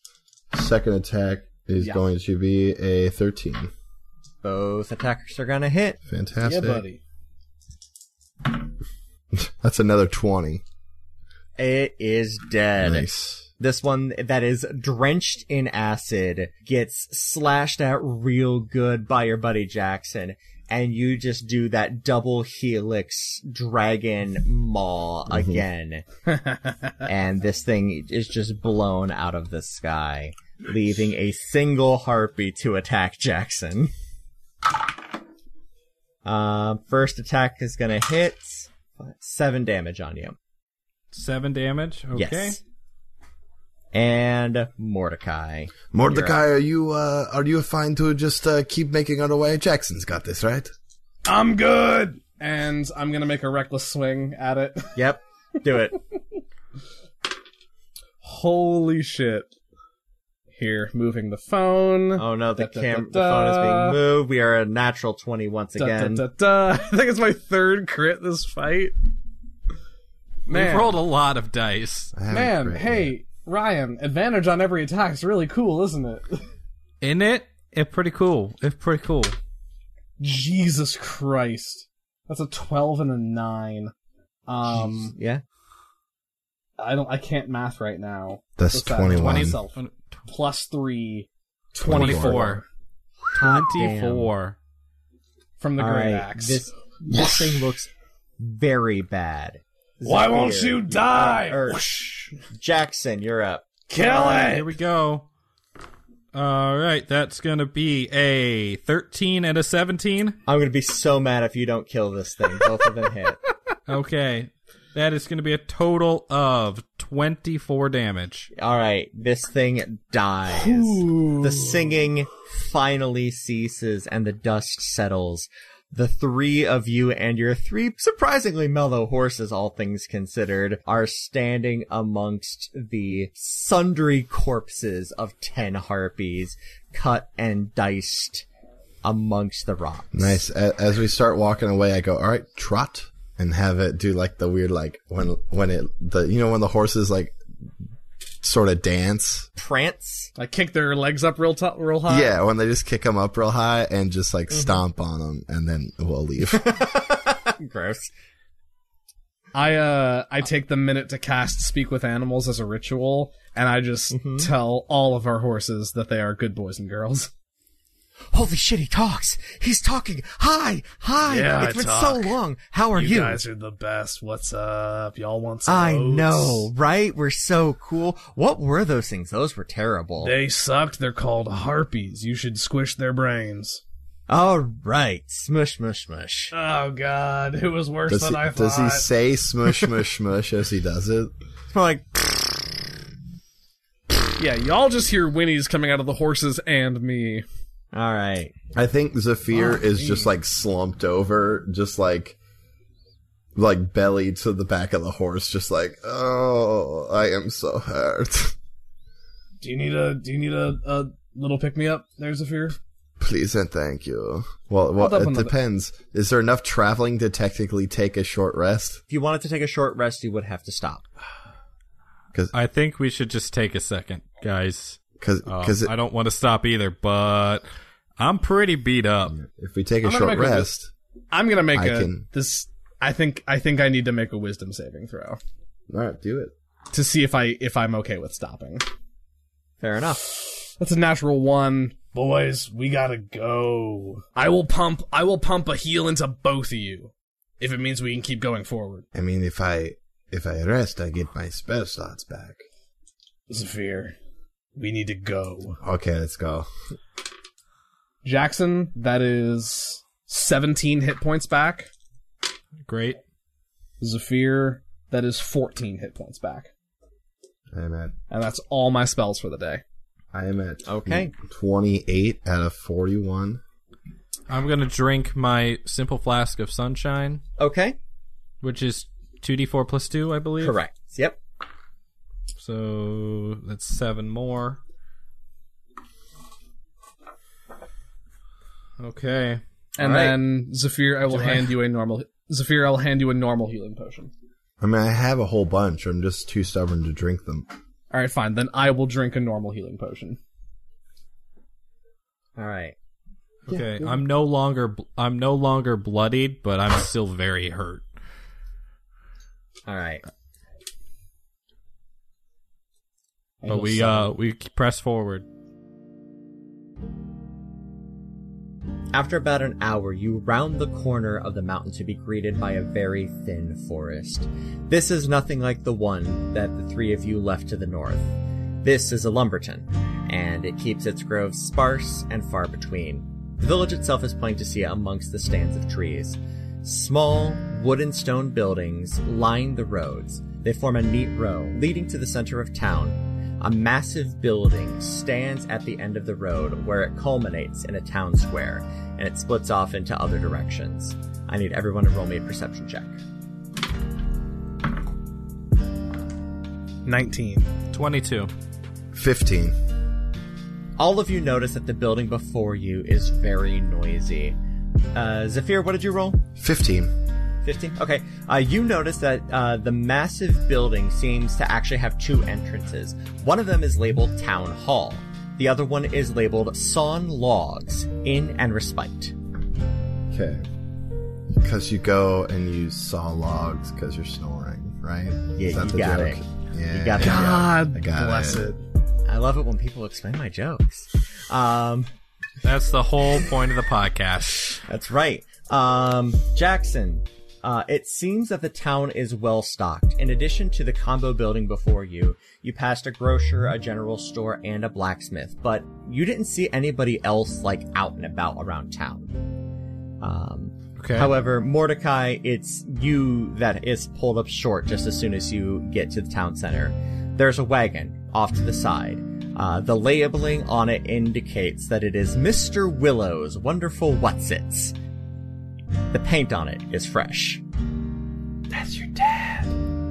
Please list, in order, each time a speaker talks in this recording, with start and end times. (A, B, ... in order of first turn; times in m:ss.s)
0:00.5-0:03.7 A
0:01.8-0:02.0 B
0:04.4-0:06.0 C
0:06.1-0:06.8 A
0:06.4-0:07.0 B
0:09.3-0:10.6 A
0:11.6-0:13.1 C
0:12.8-0:13.5 A
0:13.6-0:26.0 C
0:25.3-0:25.6 A
0:26.3-0:26.9 B
0:27.0-0:33.9 C
0:36.2-0:40.4 C
0:41.1-0:42.6 D
0:42.1-0:42.6 C
0:43.9-0:46.4 C
0:45.9-0:50.7 A
0:51.2-0:54.9 B
0:54.9-0:56.0 C
0:58.2-0:59.5 B
1:00.5-1:04.0 B
1:02.2-1:06.2 C
1:05.8-1:08.9 B
1:10.5-1:11.0 B
1:10.5-1:12.1 D
1:12.1-1:13.1 A
1:12.3-1:16.5 B
1:17.0-1:19.3 D
1:20.2-1:23.9 B
1:24.5-1:25.2 B
1:24.8-1:25.4 C
1:26.8-1:29.8 B
1:28.6-1:29.6 A
1:29.1-1:30.2 D
1:30.3-1:32.6 B
1:31.8-1:32.4 A
1:31.8-1:32.6 D
1:33.3-1:34.3 C
1:33.3-1:34.6 D
1:35.6-1:37.7 B
1:35.8-1:41.8 C
1:40.0-1:42.4 B
1:42.5-1:44.1 C
1:43.9-1:44.7 B
1:44.0-1:45.3 D
1:46.3-1:50.4 D
1:50.4-1:53.4 C
1:53.9-1:58.5 D
1:58.5-2:18.4 C
2:00.5-2:02.0 B
2:19.0-2:20.4 C
2:20.1-2:27.4 A
2:28.4-2:29.5 A
2:29.6-2:30.3 C
2:30.4-2:32.3 B
2:32.1-2:36.6 A
2:36.5-2:38.1 C
2:39.5-2:47.3 B
2:44.1-2:44.5 C
2:48.3-2:53.4 C
2:51.2-2:52.4 B
2:52.9-2:56.7 B
2:55.6-3:00.3 C
3:00.2-3:03.8 B
3:04.3-3:06.5 C
3:06.5-3:09.1 B
3:08.1-3:11.3 A
3:11.7-3:12.7 C
3:14.4-3:17.4 B
3:17.9-3:18.5 C
3:18.7-3:22.4 A
3:19.5-3:20.3 B
3:23.5-3:28.6 A
3:29.6-3:32.8 B
3:33.2-3:39.0 A
3:35.0-3:35.5 B
3:39.1-3:41.0 C
3:42.5-3:47.6 D
3:45.2-3:45.9 A
3:48.2-3:49.3 D
3:49.3-3:50.9 A
3:50.0-3:50.7 B
3:51.3-3:55.4 B
3:51.7-3:52.2 A
3:55.9-3:56.5 A
3:56.9-3:58.8 B
3:59.8-4:00.2 C
4:00.4-4:09.0 B
4:09.1-4:12.6 A
4:13.5-4:14.1 B
4:14.7-4:15.8 B
4:15.8-4:16.7 A
4:18.2-4:21.9 B
4:22.8-4:23.2 D
4:24.0-4:26.7 B
4:27.7-4:28.1 A
4:28.3-4:29.8 B
4:30.3-4:33.6 A
4:30.8-4:31.3 C
4:34.5-4:37.4 D
4:37.6-4:38.0 C
4:38.6-4:40.8 D
4:40.6-4:41.4 C
4:42.5-4:44.8 D
4:49.0-4:49.6 D
4:50.0-4:54.3 B
4:50.0-4:50.4 C
4:51.3-4:51.7 D
4:54.8-4:57.6 A
4:58.1-5:00.4 B
5:02.6-5:03.0 C
5:03.7-5:08.0 D
5:03.7-5:04.2 A
5:09.8-5:10.2 C
5:13.6-5:14.3 B
5:13.7-5:15.4 D
5:19.1-5:53.1 C
5:57.0-5:57.7 B
5:57.9-5:58.5 D
5:59.1-5:59.8 A
6:01.0-6:04.6 C
6:05.1-6:06.4 C
6:06.6-6:07.1 A
6:07.6-6:19.3 C
6:20.3-6:20.6 A
6:21.5-6:28.7 A
6:25.6-6:27.7 C
6:27.2-6:28.8 B
6:29.2-6:32.1 C
6:32.6-6:34.8 D
6:34.8-6:49.4 C
6:50.2-7:04.9 C
6:51.0-6:51.3 D
7:06.1-7:07.6 C
7:08.7-7:09.6 B